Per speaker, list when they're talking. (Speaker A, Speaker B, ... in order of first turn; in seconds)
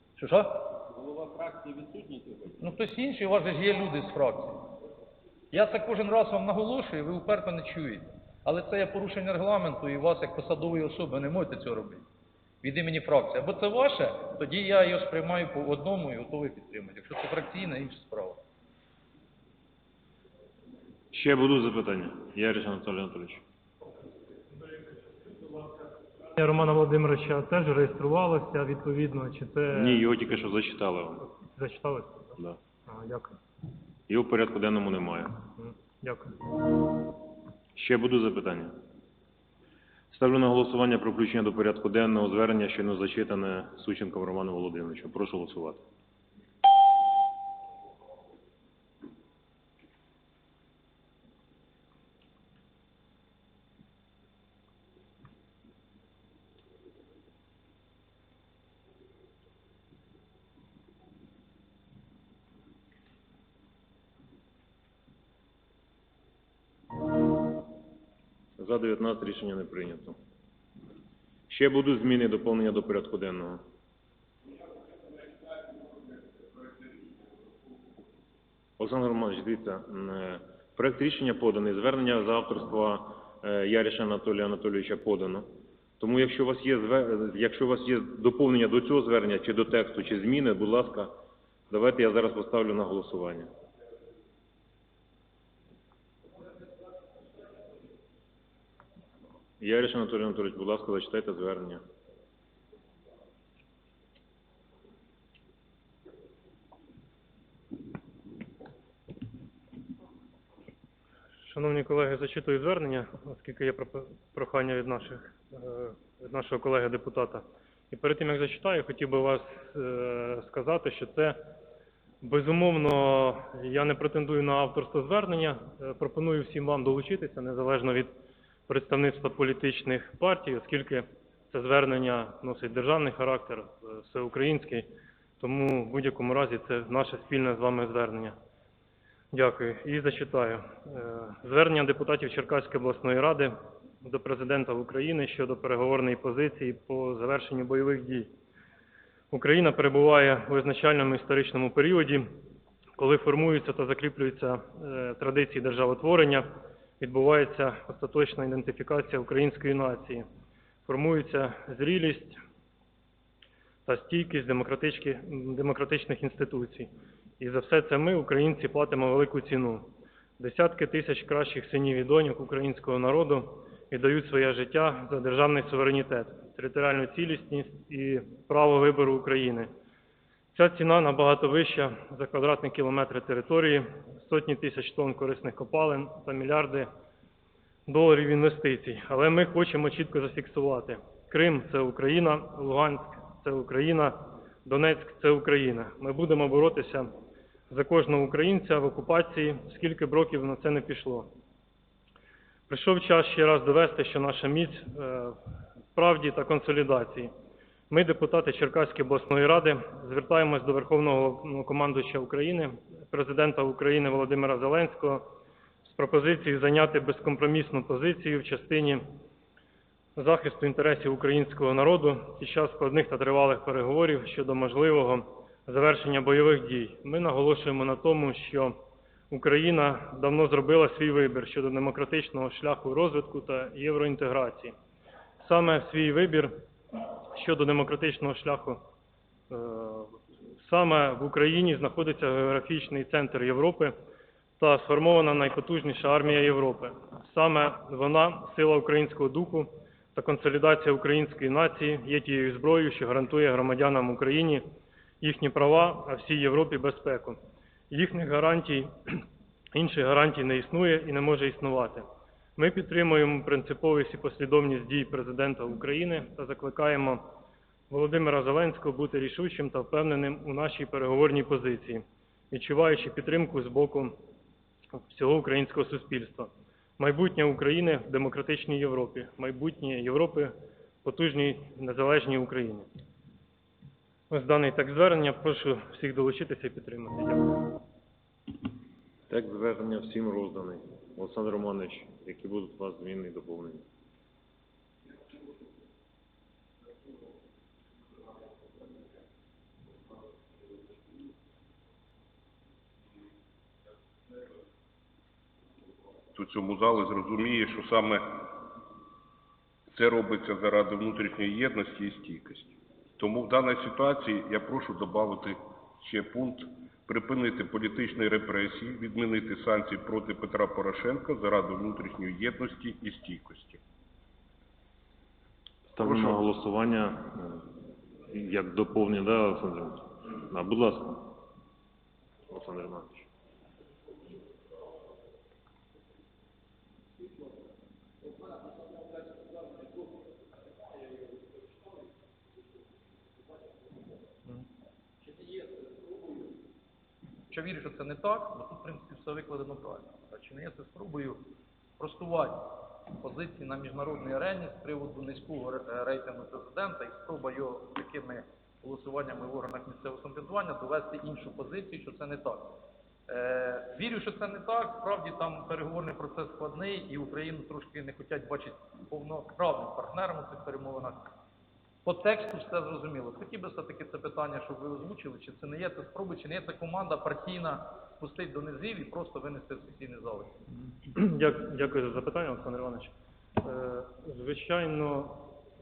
Speaker A: 0.2-0.6, 2.6-4.7, 5.5-12.0, 12.6-18.4, 347.5-351.4, 352.0-362.8, 363.3-371.3, 372.1-380.5
Speaker B: 0.7-2.6
Speaker C: 21.1-23.4, 29.7-31.3, 34.1-35.4, 37.8-38.8, 40.1-45.8, 68.6-70.2, 71.5-73.6, 78.8-91.1, 91.7-93.5, 99.6-101.8, 289.3-293.8, 325.9-327.6, 328.3-331.3, 332.5-333.2
Speaker D: 26.4-30.1, 31.5-32.4, 32.9-33.4, 35.6-36.4, 111.4-121.4, 122.2-128.1, 128.7-134.9, 135.4-138.4, 139.3-148.3, 149.3-152.3, 153.0-160.2, 160.9-162.4, 163.9-179.7, 180.5-186.9, 187.9-197.1, 197.7-201.3, 202.7-205.4, 205.9-207.3, 207.9-215.3, 215.8-219.1, 220.2-228.8, 229.3-234.8, 235.4-236.6, 237.3-238.8, 239.5-244.0, 244.6-254.7, 255.2-257.4, 257.9-267.2, 267.9-274.1, 275.1-280.5, 281.0-282.9, 284.3-287.6, 381.1-385.5
Speaker E: 306.4-308.5, 309.9-323.8, 326.0-326.4